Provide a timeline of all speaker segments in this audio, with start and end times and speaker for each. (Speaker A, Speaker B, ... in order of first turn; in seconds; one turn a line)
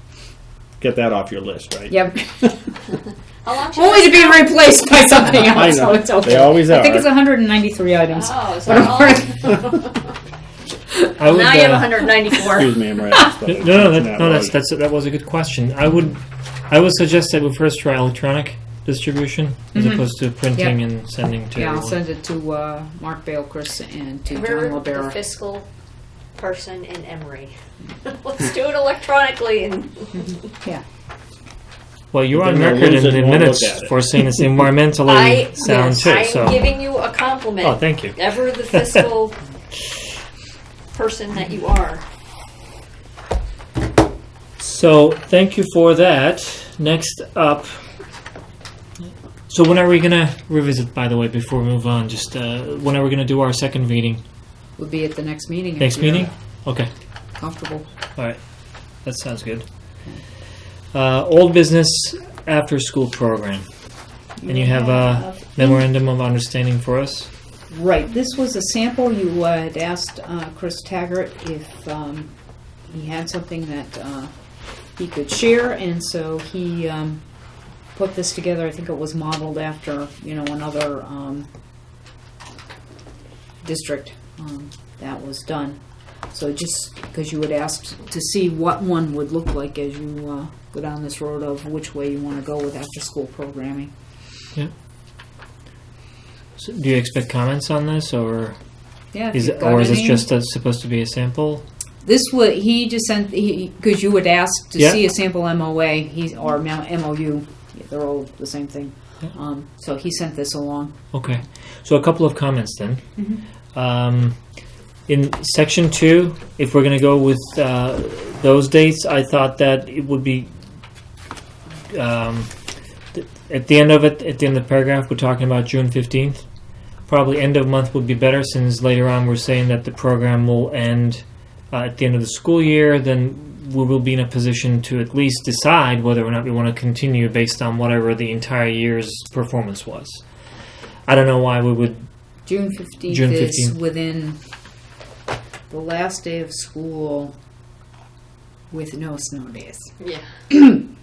Speaker A: 0.8-2.5
Speaker B: 1.9-2.5
Speaker C: 3.4-4.6
Speaker B: 3.7-9.7
Speaker A: 5.4-7.1
Speaker C: 8.1-10.1
Speaker C: 11.2-12.8
Speaker D: 11.2-12.0
Speaker A: 12.5-14.6
Speaker D: 13.5-22.0
Speaker B: 19.7-20.8
Speaker B: 21.5-25.2
Speaker C: 24.3-25.7
Speaker C: 26.4-27.5
Speaker C: 28.1-30.5
Speaker B: 30.2-30.8
Speaker D: 32.1-36.7
Speaker A: 32.3-34.6
Speaker C: 35.0-39.4
Speaker D: 37.6-39.0
Speaker C: 40.9-42.0
Speaker D: 44.6-47.8
Speaker D: 49.5-54.2
Speaker B: 54.8-56.3
Speaker D: 55.8-56.9
Speaker B: 57.4-57.8
Speaker D: 59.0-59.7
Speaker D: 60.9-63.7
Speaker B: 64.4-65.4
Speaker D: 64.4-67.3
Speaker B: 67.7-72.3
Speaker B: 72.9-74.3
Speaker B: 75.0-77.2
Speaker B: 77.9-81.5
Speaker B: 83.6-85.8
Speaker B: 86.3-93.9
Speaker D: 96.6-98.6
Speaker B: 99.1-100.3
Speaker D: 99.3-101.6
Speaker B: 102.0-111.0
Speaker D: 111.1-113.0
Speaker D: 113.7-114.4
Speaker D: 115.1-120.5
Speaker D: 121.9-122.5
Speaker D: 123.1-126.4
Speaker D: 127.1-140.2
Speaker D: 141.1-142.0
Speaker B: 142.4-144.4
Speaker D: 143.1-143.8
Speaker B: 145.7-147.3
Speaker B: 148.7-149.9
Speaker B: 150.5-150.9